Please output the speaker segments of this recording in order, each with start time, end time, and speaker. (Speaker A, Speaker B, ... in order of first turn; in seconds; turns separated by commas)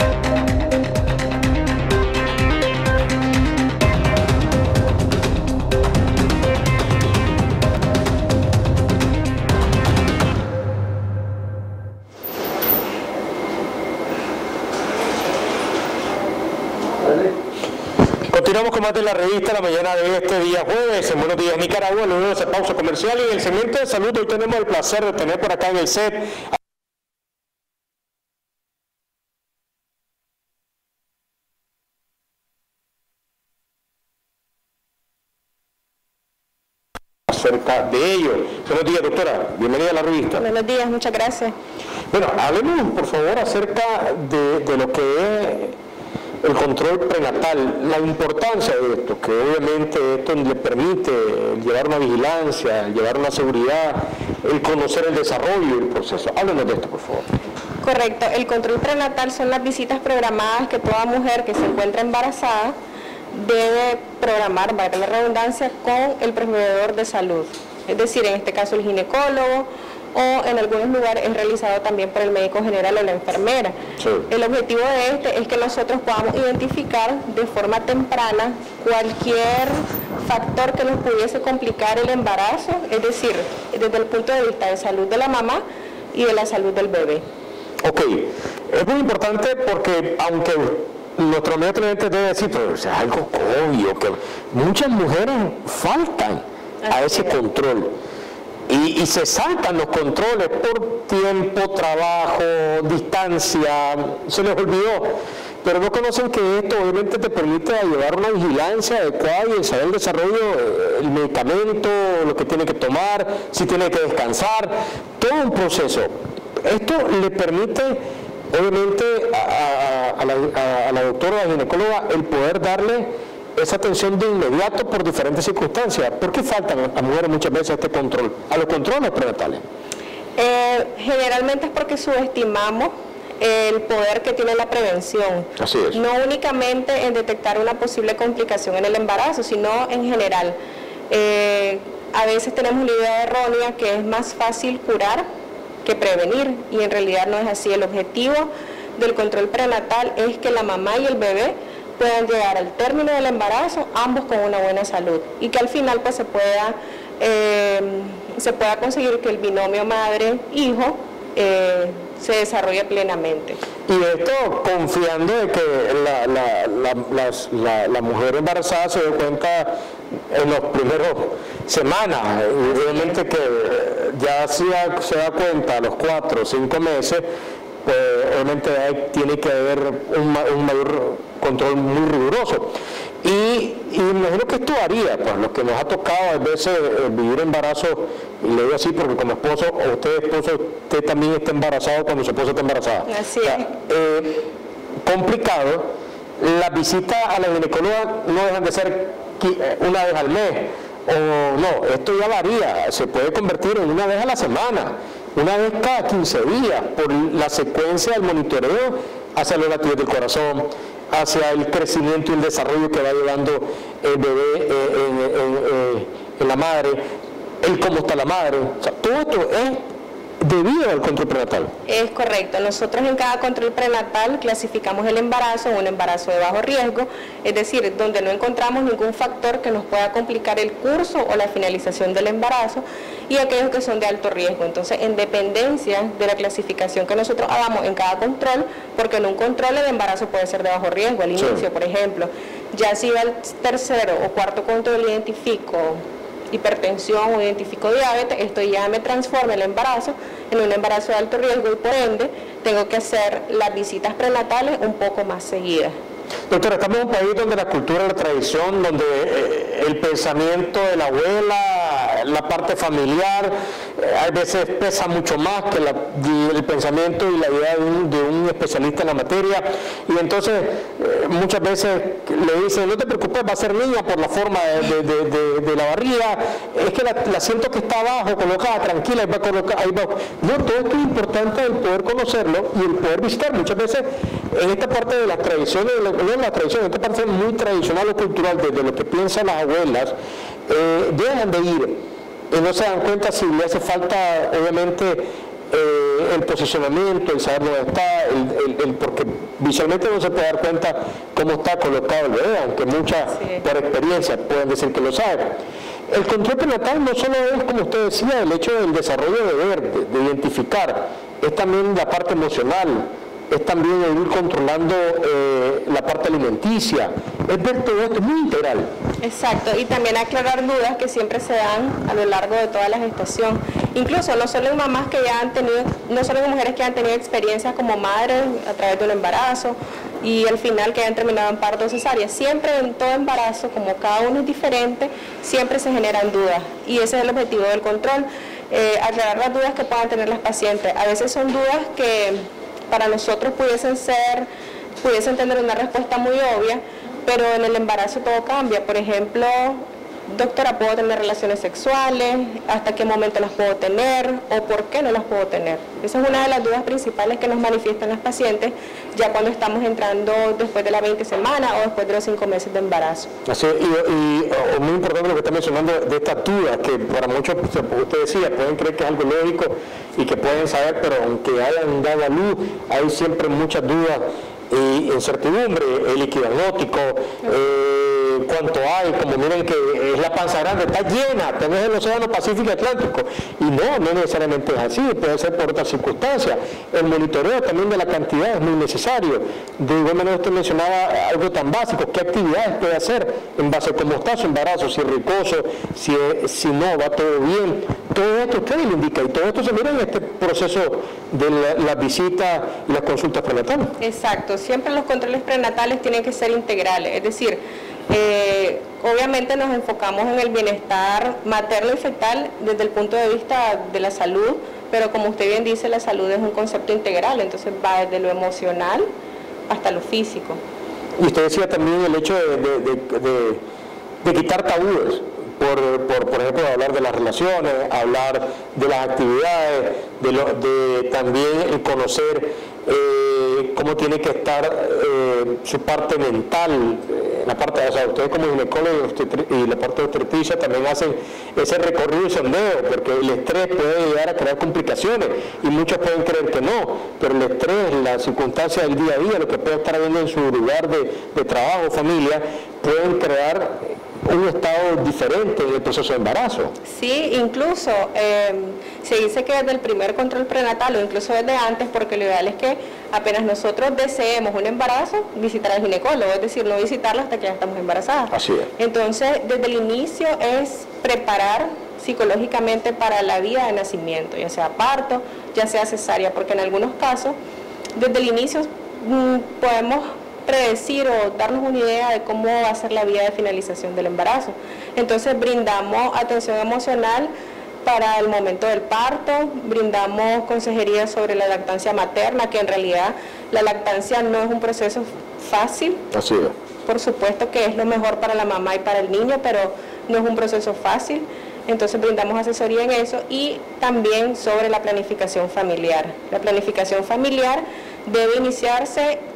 Speaker A: 18.3-26.4, Speaker A: 37.3-40.5, Speaker B: 40.4-41.5, Speaker A: 42.1-45.8, Speaker A: 46.4-57.3, Speaker B: 57.8-62.8, Speaker B: 63.3-73.8, Speaker A: 74.0-74.3, Speaker B: 74.3-85.6, Speaker B: 86.1-87.2, Speaker A: 87.8-97.9, Speaker B: 96.8-97.4, Speaker A: 98.7-118.0, Speaker A: 118.5-129.6, Speaker B: 130.4-140.6, Speaker A: 135.6-136.0, Speaker B: 141.1-145.2, Speaker B: 145.8-163.6, Speaker A: 163.9-169.7, Speaker A: 170.3-177.2, Speaker B: 172.7-173.2, Speaker A: 177.8-194.4, Speaker B: 193.1-193.7, Speaker A: 195.1-195.9, Speaker A: 196.4-217.0, Speaker A: 217.6-219.8, Speaker A: 220.4-221.7, Speaker B: 221.9-256.0, Speaker A: 241.4-241.7, Speaker A: 256.5-290.1, Speaker A: 290.7-292.0, Speaker A: 292.5-305.6, Speaker B: 303.3-303.6, Speaker A: 306.1-318.9, Speaker B: 319.2-344.5, Speaker B: 345.0-363.3, Speaker A: 363.5-403.9, Speaker B: 404.0-407.6, Speaker B: 408.1-419.1, Speaker B: 419.7-420.6, Speaker A: 421.2-423.6, Speaker A: 424.2-456.7, Speaker B: 456.9-477.4, Speaker A: 468.3-468.7, Speaker B: 478.0-487.3, Speaker B: 487.8-496.0, Speaker A: 496.1-496.5, Speaker B: 496.9-509.2